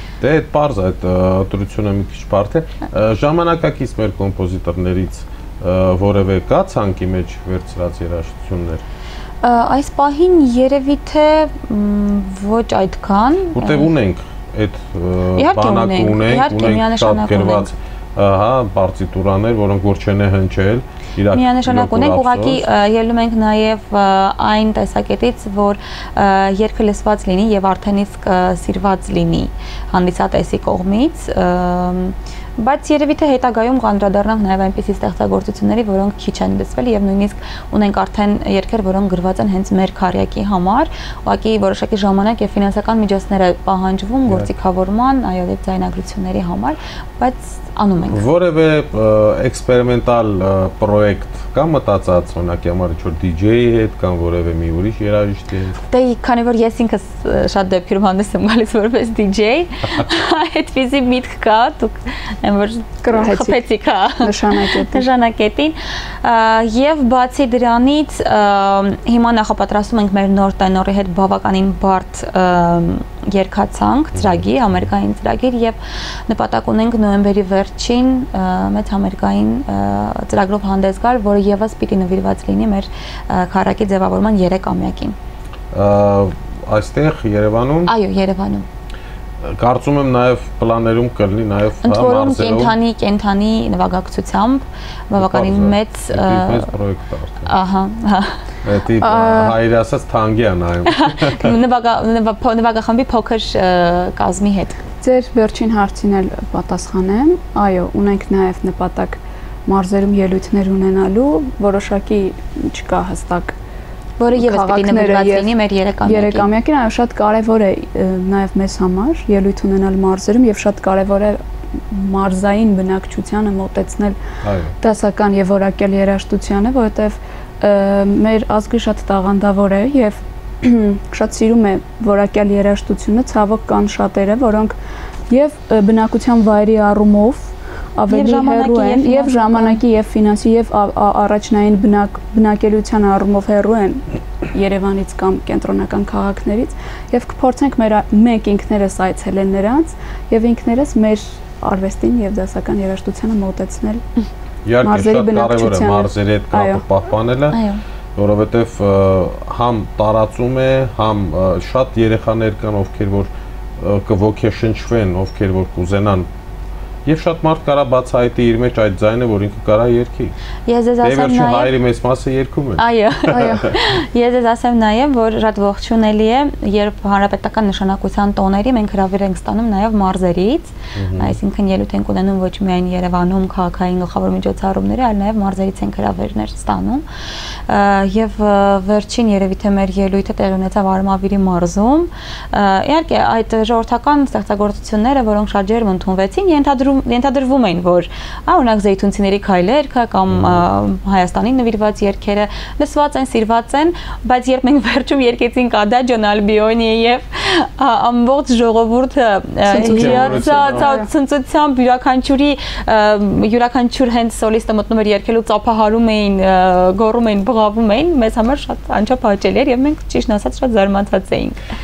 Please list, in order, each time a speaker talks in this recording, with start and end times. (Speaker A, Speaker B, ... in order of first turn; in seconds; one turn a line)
Speaker A: 0.2-8.8
Speaker B: 9.4-13.9
Speaker A: 13.5-22.6
Speaker B: 15.3-17.7
Speaker B: 21.3-48.2
Speaker A: 48.1-55.8
Speaker B: 55.9-75.8
Speaker C: 63.0-63.6
Speaker C: 64.2-65.0
Speaker A: 74.1-74.4
Speaker B: 76.3-85.2
Speaker A: 85.7-87.9
Speaker B: 87.9-88.7
Speaker A: 89.4-92.7
Speaker B: 91.8-96.7
Speaker A: 95.2-97.5
Speaker B: 97.5-98.4
Speaker A: 98.6-101.5
Speaker C: 99.0-99.5
Speaker B: 100.9-104.8
Speaker C: 105.0-113.5
Speaker B: 114.2-116.5
Speaker C: 114.3-115.5
Speaker C: 116.0-124.2
Speaker A: 124.4-124.7
Speaker C: 124.8-134.8
Speaker C: 135.3-154.0
Speaker B: 138.1-139.8
Speaker A: 154.6-157.6
Speaker C: 154.8-156.8
Speaker B: 157.5-157.8
Speaker A: 158.2-166.3
Speaker A: 167.0-170.3
Speaker B: 170.7-171.7
Speaker A: 171.0-173.7
Speaker B: 172.8-187.0
Speaker A: 180.9-181.4
Speaker B: 187.7-221.6
Speaker A: 200.3-200.6
Speaker C: 209.7-211.1
Speaker A: 209.8-210.9